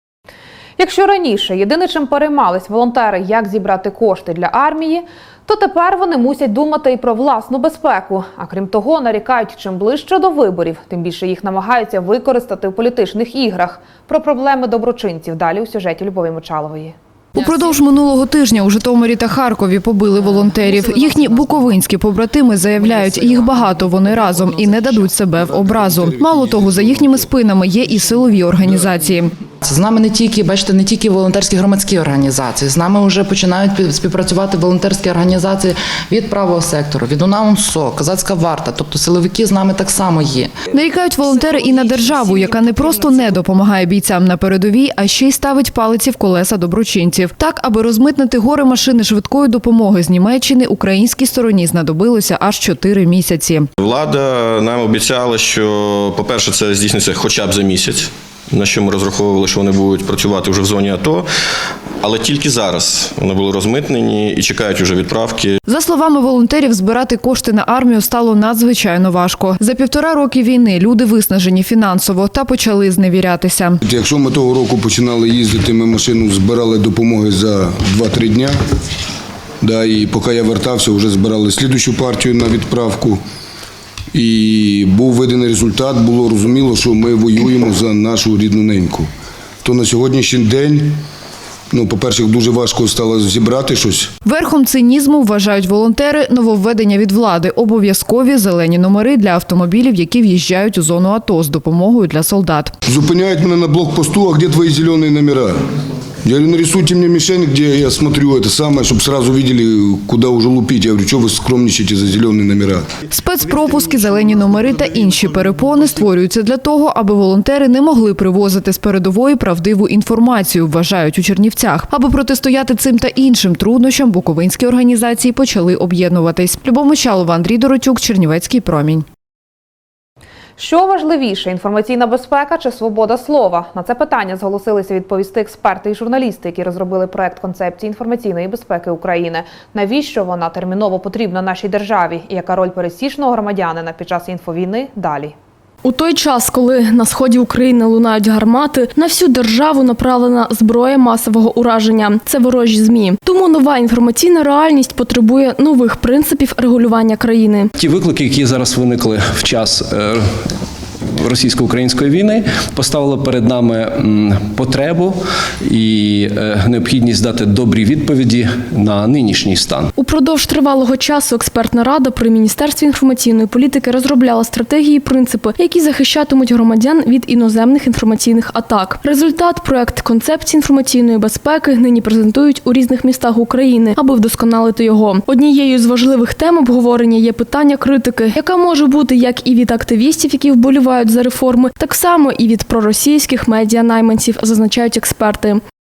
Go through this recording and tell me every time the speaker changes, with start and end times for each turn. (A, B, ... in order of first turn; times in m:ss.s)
0:00.8-0:17.0 A
0:17.4-0:29.3 B
0:25.8-0:27.2 C
0:29.6-0:40.6 D
0:40.7-0:53.7 B
0:53.8-1:01.3 E
1:02.0-1:05.6 E
1:05.7-1:13.8 B
1:13.8-1:18.6 C
1:19.6-1:23.2 C
1:24.1-1:29.1 C
1:29.6-1:31.0 C
1:31.7-1:34.1 C
1:34.2-1:42.8 B
1:42.9-1:45.6 C
1:46.2-1:52.9 C
1:53.1-2:09.0 B
2:10.6-2:25.4 A
2:25.8-2:37.7 F
2:37.8-2:40.5 G
2:41.2-2:49.9 G
2:50.0-3:15.6 F